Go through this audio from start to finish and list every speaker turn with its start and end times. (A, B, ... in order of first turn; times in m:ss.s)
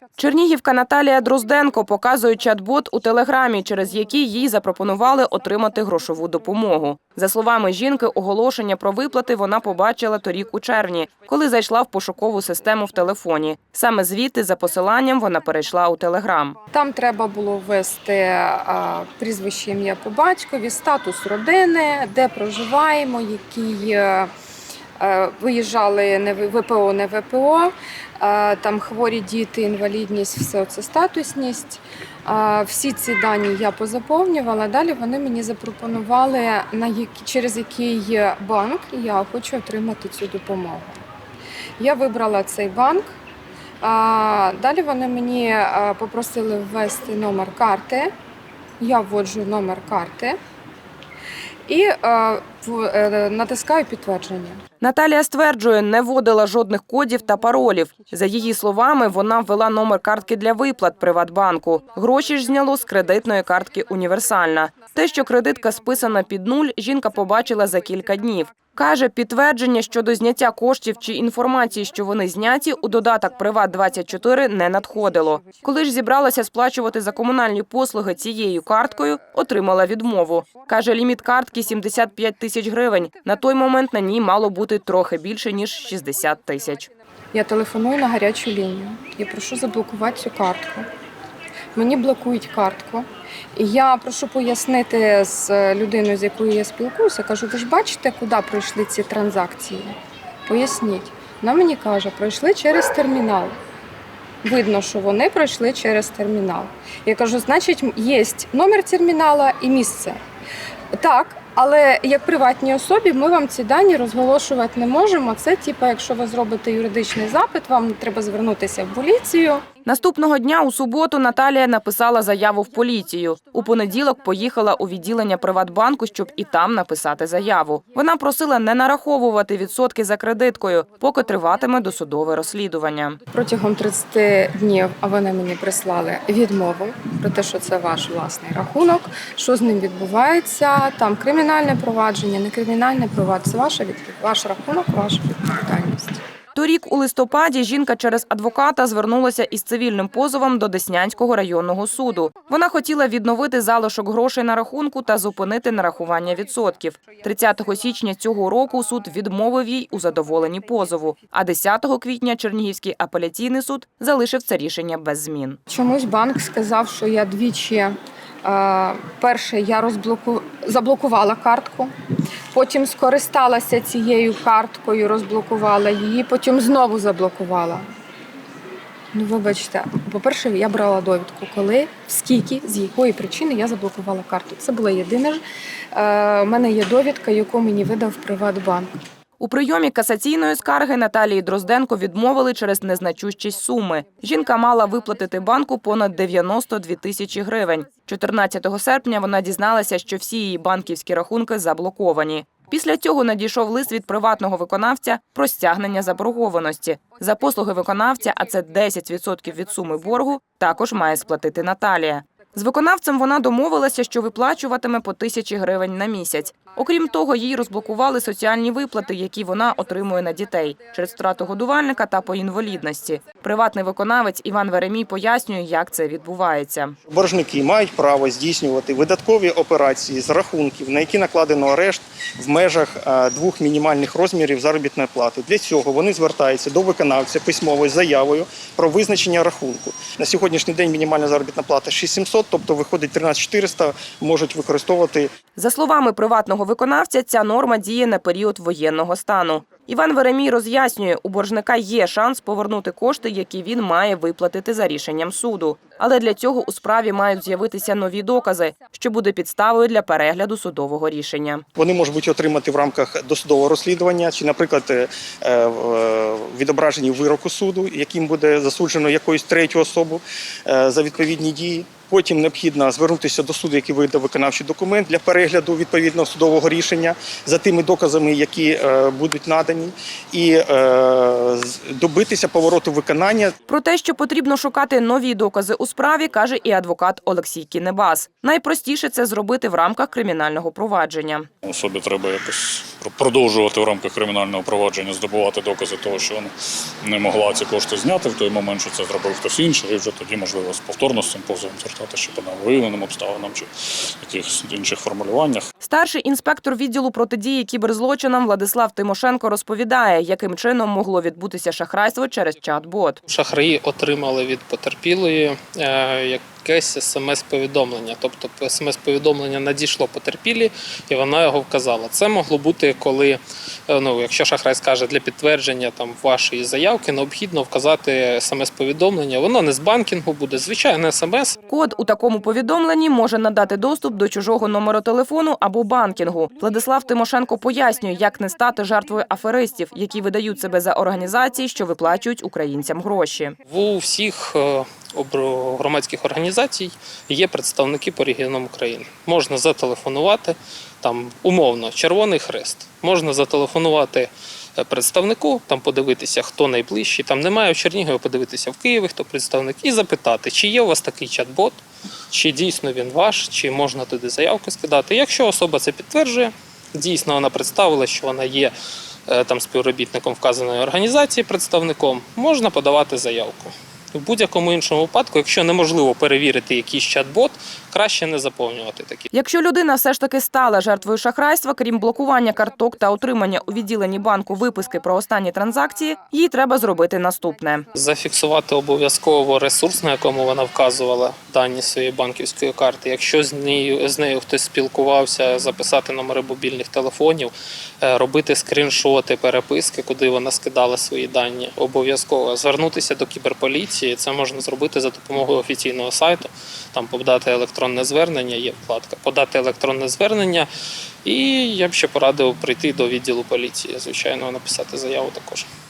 0:00.2-0:16.6 A
0:16.7-0:24.3 B
0:25.0-0:41.0 B
0:41.8-0:43.1 B
0:43.8-0:48.1 B
0:48.8-0:50.4 B
0:51.7-0:54.6 B
0:54.8-1:26.9 A
1:27.3-1:30.9 B
1:31.8-1:39.9 B
1:40.5-1:43.6 B
1:44.4-1:50.2 B
1:50.9-1:59.6 B
1:59.8-2:13.2 A
2:13.3-2:26.2 B
2:26.6-2:45.6 A
2:45.7-2:51.9 B
2:52.5-2:57.8 B
2:59.1-3:05.4 B
3:05.9-3:08.9 B
3:09.4-3:47.0 A
3:47.1-4:05.3 C
4:05.6-4:21.6 A
4:21.8-4:43.6 C
4:43.7-4:51.5 A
4:51.6-4:56.5 D
4:57.0-5:03.7 D
5:04.2-5:05.7 D
5:05.8-5:13.2 A
5:13.3-5:31.6 E
5:31.7-5:43.6 A
5:43.7-6:01.8 E
6:02.3-6:08.7 E
6:09.3-6:19.3 E
6:19.3-6:27.9 A
6:27.9-6:37.5 E
6:38.0-6:50.7 E
6:51.2-6:55.7 E